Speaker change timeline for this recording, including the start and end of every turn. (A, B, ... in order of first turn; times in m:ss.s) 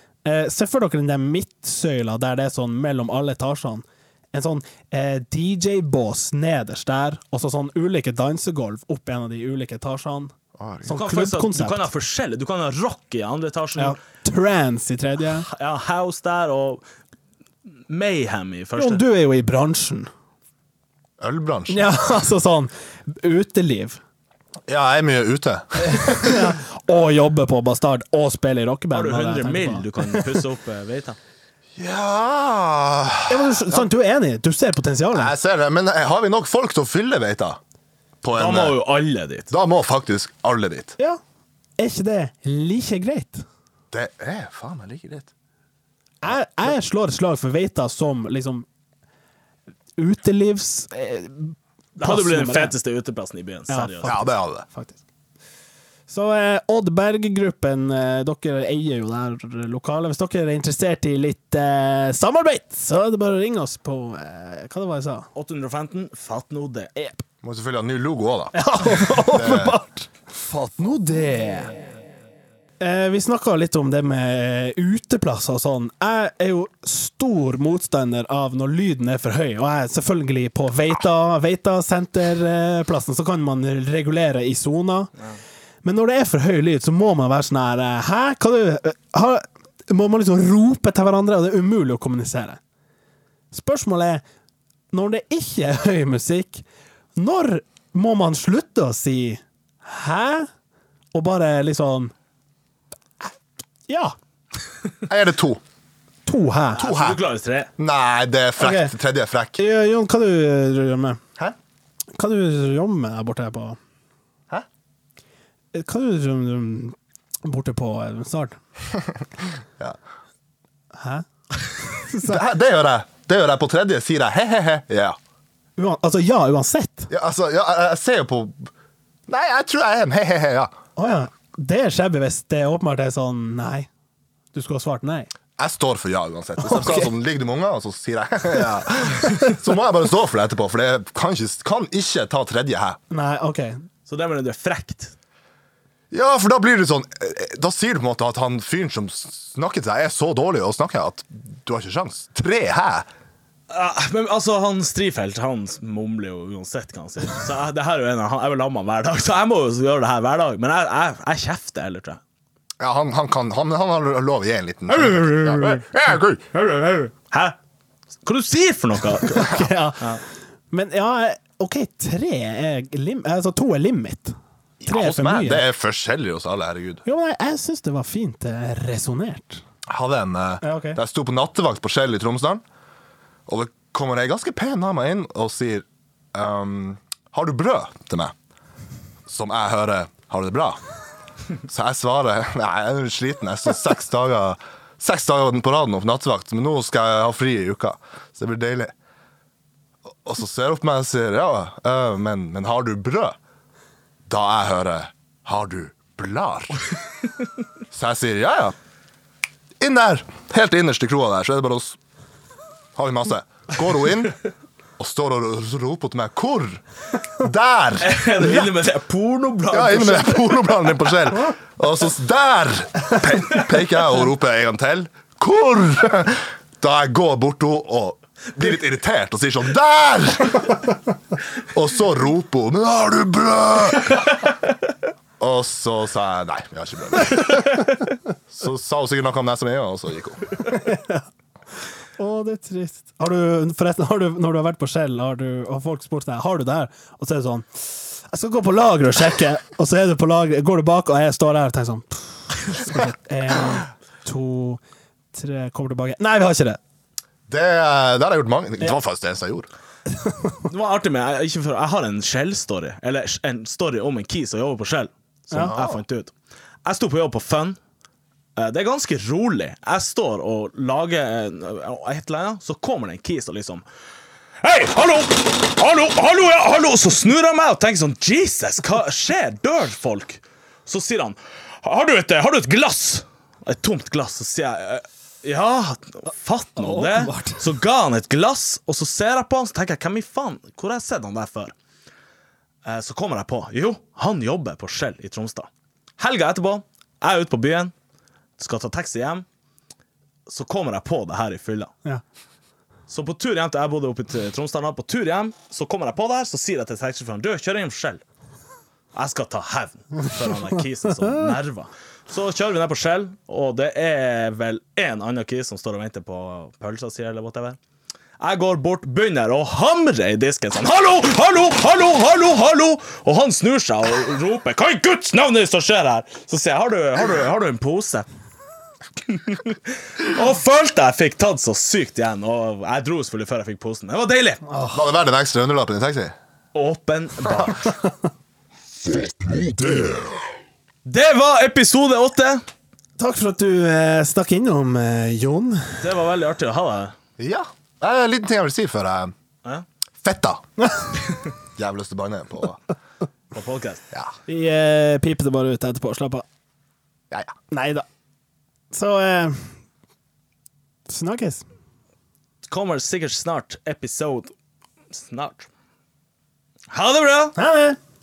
0:00.2-0:10.3 A
0:10.6-0:10.9 B
0:10.8-0:11.9 A
0:10.9-0:14.0 C
0:13.8-0:15.5 A
0:15.3-0:16.8 C
0:17.9-0:19.0 C
0:18.8-0:20.1 A
0:21.2-0:21.9 B
0:21.7-0:24.0 A
0:24.7-0:26.6 B
0:25.8-0:30.4 A
0:28.9-0:31.2 C
0:31.8-0:33.9 B
0:33.3-0:35.3 A
0:35.1-0:37.6 B
0:38.2-0:38.8 B
0:38.4-0:39.5 C
0:39.5-0:40.9 B
0:41.8-0:43.4 A
0:43.9-0:45.3 B
0:46.2-0:48.6 A
0:50.0-0:52.7 A
0:52.0-0:54.1 C
0:53.7-0:55.0 A
0:54.0-0:54.6 B
0:56.1-1:05.3 A
1:05.4-1:06.9 C
1:07.0-1:07.2 A
1:07.4-1:09.8 B
1:08.5-1:11.7 A
1:12.8-1:25.1 A
1:25.8-1:32.6 A
1:33.5-1:34.2 A
1:34.9-1:36.6 A
1:37.2-1:40.5 A
1:41.1-1:42.1 A
1:43.9-1:44.1 A
1:45.1-1:45.6 B
1:46.2-1:46.8 A
1:46.8-1:47.7 C
1:46.8-1:47.2 B
1:47.8-1:49.6 B
1:48.6-1:48.9 A
1:49.6-1:51.2 A
1:52.1-1:53.8 A
1:55.7-1:58.6 A
2:00.9-2:01.2 A
2:01.8-2:02.4 A
2:02.2-2:05.2 B
2:05.8-2:07.1 A
2:07.1-2:08.7 B
2:09.3-2:10.7 B
2:11.0-2:13.9 A
2:14.5-2:15.3 A
2:15.6-2:23.0 B
2:16.6-2:17.1 A
2:23.1-2:23.8 A
2:24.1-2:25.1 C
2:26.1-2:33.1 B
2:33.7-2:42.2 C
2:42.8-2:46.5 B
2:44.9-2:47.6 C
2:48.2-2:49.5 C
2:49.3-2:49.7 B
2:49.3-2:50.1 A
2:50.7-2:55.6 A
2:54.8-2:57.0 B
2:57.0-2:59.6 A
2:59.9-3:02.6 B
3:00.6-3:01.0 A
3:03.5-3:08.3 B
3:09.2-3:10.8 B
3:11.7-3:18.9 B
3:20.2-3:23.4 B
3:24.3-3:26.8 B
3:27.9-3:28.7 B
3:29.8-3:32.0 B
3:33.0-3:34.4 B
3:35.0-3:36.8 B
3:37.4-3:38.7 B
3:38.0-3:40.9 C
3:39.7-3:50.8 B
3:51.7-3:54.2 B
3:55.4-3:57.9 B
3:58.5-4:00.6 B
4:00.7-4:01.2 A
4:02.2-4:14.8 A
4:15.3-4:16.8 A
4:17.5-4:19.7 B
4:20.1-4:20.6 A
4:20.7-4:26.3 C
4:25.5-4:25.8 A
4:25.6-4:26.0 B
4:26.9-4:27.8 C
4:28.6-4:33.8 C
4:34.6-4:51.7 C
4:46.8-4:47.6 A
4:52.8-4:57.9 C
4:58.6-4:59.4 C
5:00.5-5:01.9 C
5:03.1-5:08.2 C
5:09.1-5:17.8 C
5:18.4-5:28.3 C
5:29.3-5:34.6 C
5:34.6-5:35.1 A
5:34.9-5:36.4 B
5:36.7-5:37.9 C
5:39.6-5:40.3 B
5:41.0-5:42.6 C
5:43.2-5:46.0 A
5:46.0-5:47.1 C
5:47.4-5:49.3 B
5:50.2-5:50.6 B
5:51.8-5:52.8 B
5:53.5-5:54.0 C
5:54.5-5:56.4 A
5:57.7-5:58.0 A
5:58.9-5:59.7 A
6:01.1-6:01.6 A
6:02.6-6:04.5 C
6:05.1-6:05.7 C
6:06.9-6:07.6 C
6:07.6-6:08.0 A